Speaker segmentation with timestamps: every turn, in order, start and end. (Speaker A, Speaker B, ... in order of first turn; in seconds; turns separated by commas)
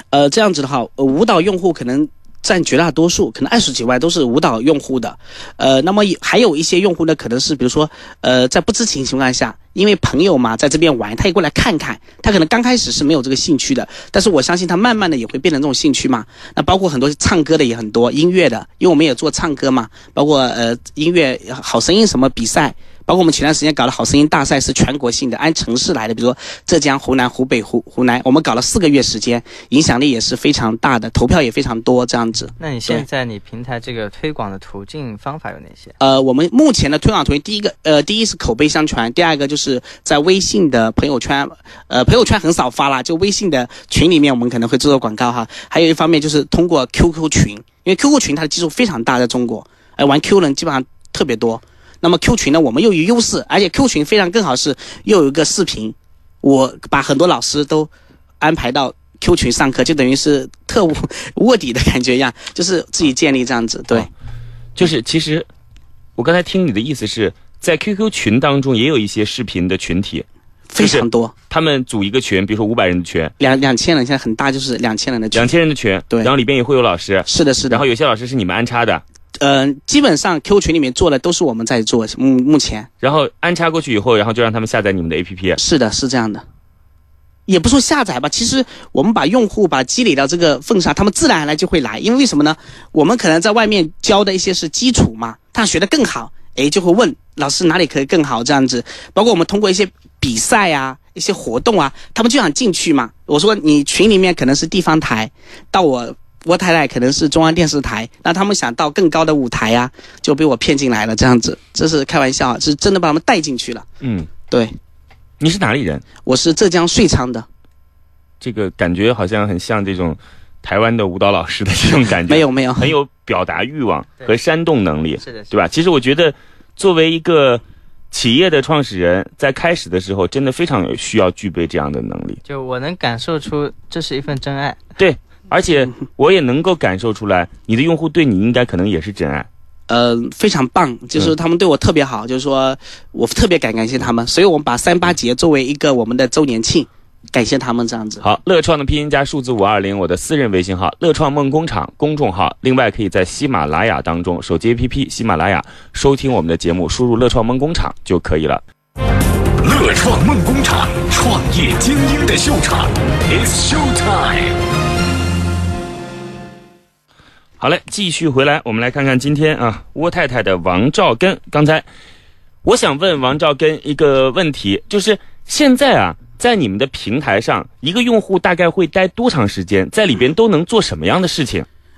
Speaker A: 0.1-33.0, Speaker B: 32.6-35.9, Speaker A: 36.0-57.9, Speaker A: 58.4-64.1, Speaker C: 64.8-65.5, Speaker C: 66.2-70.2, Speaker A: 70.7-71.3, Speaker C: 70.8-73.3, Speaker A: 73.4-75.5, Speaker C: 75.3-79.0, Speaker A: 77.3-77.8, Speaker A: 79.4-82.9, Speaker C: 83.0-85.6, Speaker A: 85.6-86.4, Speaker A: 87.5-113.9, Speaker C: 114.0-114.3, Speaker A: 114.5-114.8, Speaker C: 115.4-116.0, Speaker A: 116.2-117.5, Speaker C: 118.4-132.4, Speaker A: 122.3-122.9, Speaker B: 125.2-125.5, Speaker B: 132.5-134.8, Speaker C: 135.0-139.5, Speaker A: 139.9-148.2, Speaker C: 148.2-158.6, Speaker D: 159.6-164.6, Speaker C: 167.6-171.9, Speaker C: 172.6-181.7